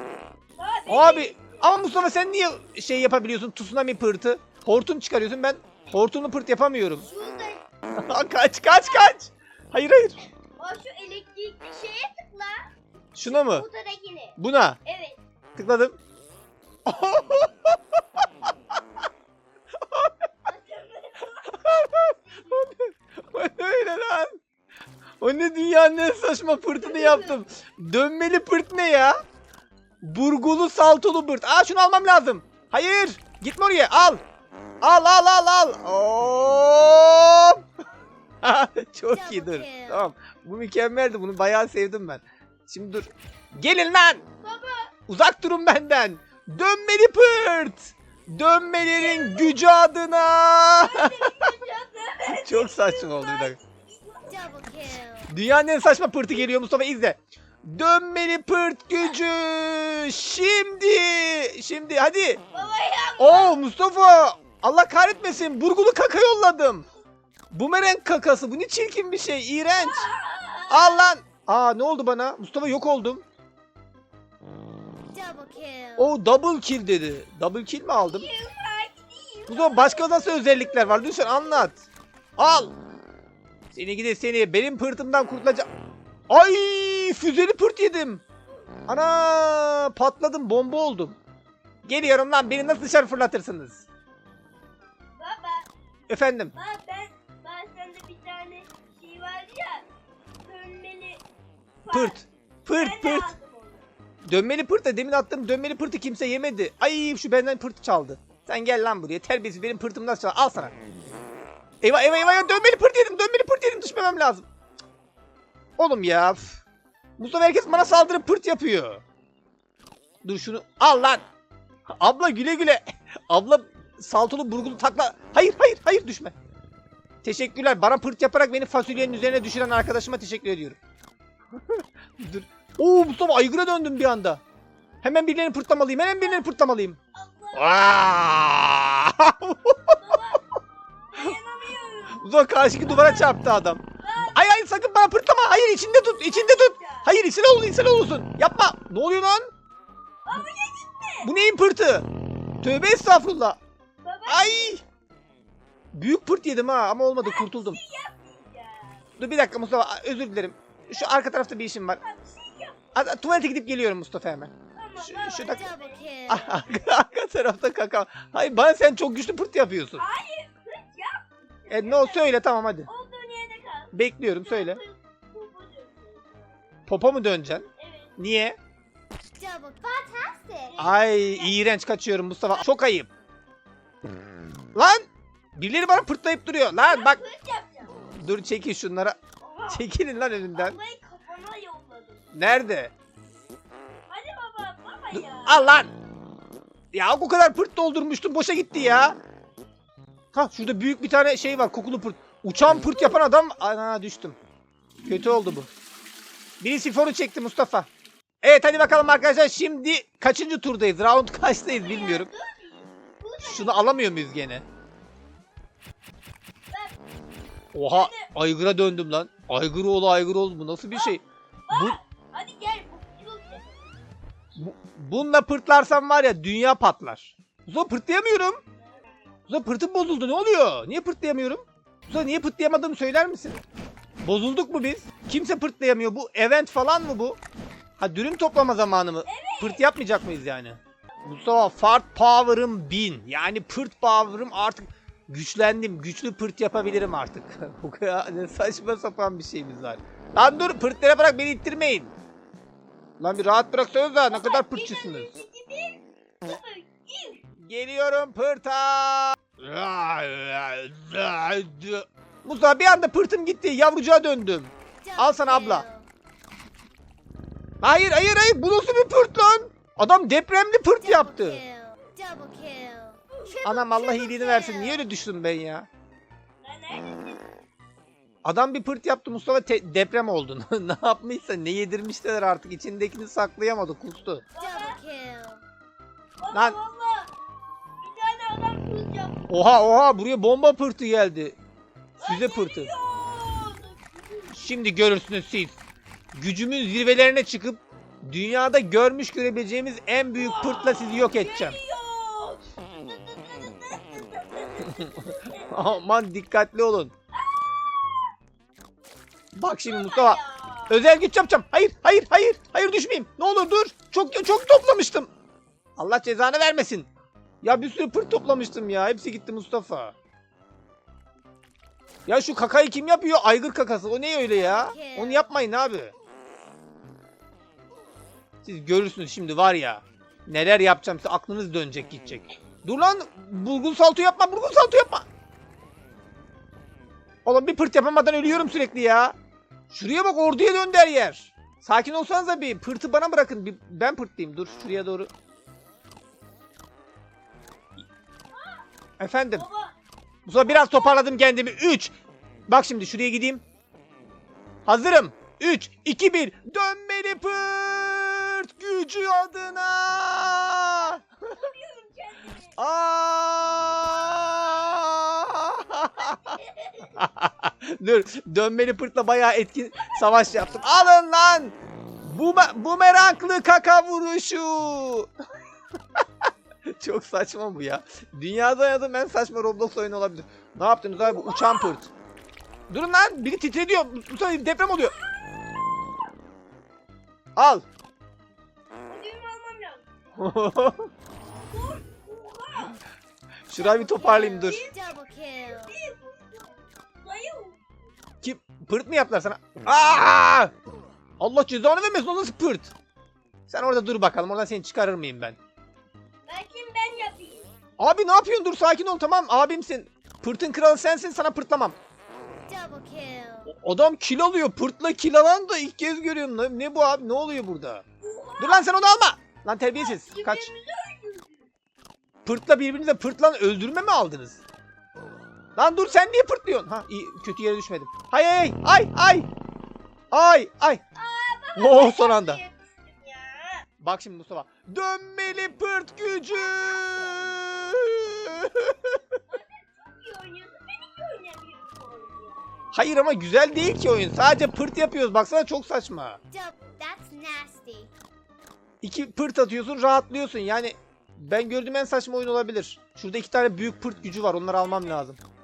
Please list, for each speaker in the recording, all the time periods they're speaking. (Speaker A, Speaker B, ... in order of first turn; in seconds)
Speaker A: 0.6-1.7, 7.0-7.6, 10.6-12.7, 13.2-15.2, 20.4-22.7, 26.7-27.4, 44.4-44.9, 48.9-49.5, 50.8-54.9, 62.5-63.6, 69.7-71.1, 78.0-81.7, 95.2-95.7, 96.5-99.8, 100.4-101.2, 101.8-103.8, 136.2-136.5, 137.1-138.2, 139.9-140.4, 141.1-143.3, 144.0-144.4, 146.1-147.1, 150.2-151.3, 154.0-154.8, 157.2-159.0, 162.0-163.3, 164.7-166.9, 169.9-172.3, 172.8-176.5, 177.8-178.2, 180.7-181.6, 186.8-187.9, 189.4-189.9, 190.5-192.3, 194.1-195.7, 211.7-214.1, 216.7-217.0, 217.9-218.3, 220.9-221.2, 221.7-223.9, 239.2-239.8, 254.3-257.4, 273.3-274.6, 276.6-277.5, 284.5-285.0, 286.4-287.3, 288.0-289.5, 292.2-294.6, 300.4-305.8, 309.9-311.0, 348.5-348.8, 349.5-349.9, 350.6-351.3, 360.9-362.7, 366.2-367.1, 381.2-382.0, 385.0-386.0, 389.1-390.1, 391.6-393.0, 393.7-397.8, 406.4-407.7, 418.2-419.1, 419.9-421.7, 431.1-433.9, 436.7-437.4, 439.5-442.7, 454.8-455.2
Speaker B: 0.9-7.0, 8.0-10.2, 13.1-13.7, 14.4-14.8, 15.6-15.9, 16.9-17.8, 21.6-24.4, 25.2-29.1, 30.0-34.2, 34.8-37.6, 38.4-44.2, 45.1-51.4, 52.3-53.6, 55.3-62.4, 63.2-66.8, 67.5-70.1, 70.7-73.2, 76.0-78.3, 79.5-81.8, 82.4-82.7, 83.7-85.7, 86.3-88.2, 88.9-91.2, 91.8-93.8, 96.1-96.5, 101.9-103.3, 104.2-110.7, 111.8-114.4, 115.8-116.6, 117.2-119.0, 120.2-121.2, 122.0-126.3, 127.2-130.8, 131.6-134.4, 135.0-137.0, 137.5-140.0, 142.1-149.5, 151.2-152.1, 152.6-153.6, 154.3-154.8, 155.9-157.8, 159.2-162.0, 162.9-165.7, 166.3-170.0, 171.7-172.9, 173.9-174.8, 176.9-177.7, 178.2-178.6, 180.8-183.1, 184.7-187.2, 188.1-189.2, 189.7-190.8, 192.3-192.9, 195.1-195.9, 196.9-199.2, 200.3-204.3, 205.0-205.7, 206.6-207.9, 208.4-212.3, 213.4-214.6, 217.7-222.0, 224.6-228.6, 229.5-233.6, 234.2-237.4, 238.0-252.1, 253.2-255.3, 257.6-265.9, 267.8-271.6, 273.6-275.9, 278.4-284.4, 286.5-286.8, 289.5-291.6, 292.2-292.9, 294.5-295.8, 296.3-301.8, 304.8-307.1, 309.5-315.3, 316.0-317.1, 317.6-320.1, 322.3-326.1, 328.6-335.2, 337.4-339.3, 339.9-345.3, 349.2-349.6, 350.4-352.1, 352.7-353.6, 354.9-361.2, 362.8-375.3, 376.9-382.1, 382.9-385.1, 387.6-387.8, 390.4-391.1, 393.7-394.8, 398.4-400.7, 401.4-402.9, 403.7-405.6, 408.0-411.9, 413.7-418.0, 418.6-420.7, 422.4-424.6, 425.8-429.5, 430.3-431.0, 431.8-432.6, 434.0-439.1, 442.9-446.4, 449.0-455.4
Speaker C: 39.2-40.0, 54.3-55.3, 75.1-76.1, 165.6-166.4, 179.4-180.8, 265.1-266.1, 271.1-273.2, 274.7-275.0, 284.6-285.6, 324.7-325.4, 394.9-395.9, 412.7-413.7, 446.5-448.1